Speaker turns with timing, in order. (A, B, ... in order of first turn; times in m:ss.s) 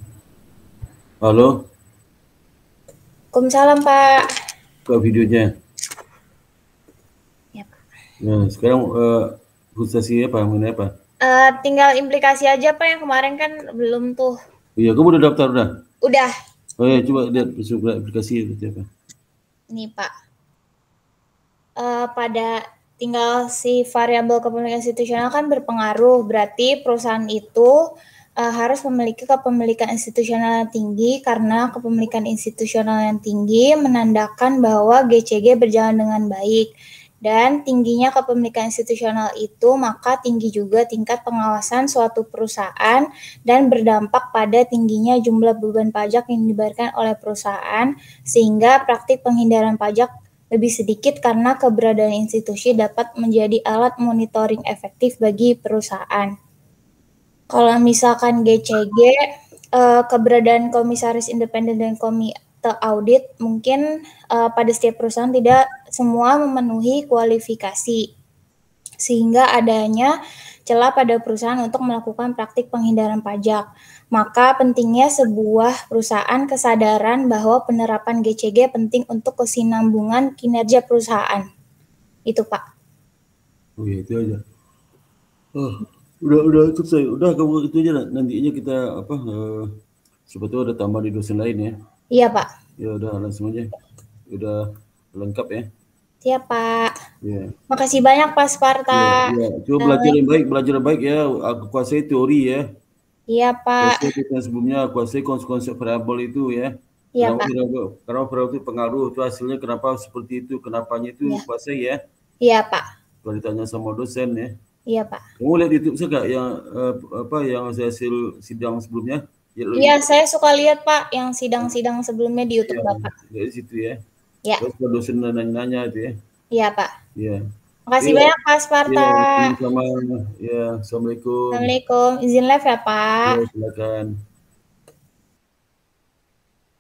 0:01.2-0:01.5 A
0:03.3-0:04.2 B
0:04.9-0:05.5 A
0:08.2-0:10.9 A
0:11.2-0:14.4 B
0:14.8-0:15.7 A
0:16.0-0:16.3 B
0:16.8-0:18.8 A
0:19.7-0:20.1 B
0:21.8-0:27.7 B
0:28.4-0:36.7 B
0:37.2-0:56.3 B
0:57.5-0:59.1 B
0:59.8-1:08.0 B
1:09.0-1:10.1 B
1:10.7-1:21.4 B
1:22.3-1:22.6 B
1:23.8-1:24.4 A
1:25.6-1:29.7 A
1:30.3-1:31.7 A
1:32.1-1:32.5 B
1:32.8-1:33.7 A
1:34.3-1:34.6 A
1:35.1-1:35.7 A
1:36.2-1:36.9 B
1:37.2-1:37.5 A
1:37.7-1:39.3 B
1:38.9-1:42.6 A
1:39.8-1:40.1 B
1:43.3-1:44.1 B
1:43.8-1:52.0 A
1:47.2-1:47.5 B
1:52.4-1:52.8 B
1:53.2-1:54.5 A
1:54.9-1:55.2 B
1:55.4-2:00.0 A
1:59.8-2:03.1 B
2:02.7-2:04.0 A
2:04.6-2:06.1 A
2:06.5-2:06.9 B
2:07.9-2:09.5 B
2:08.0-2:08.3 A
2:08.9-2:11.7 A
2:11.5-2:13.4 B
2:13.2-2:14.1 A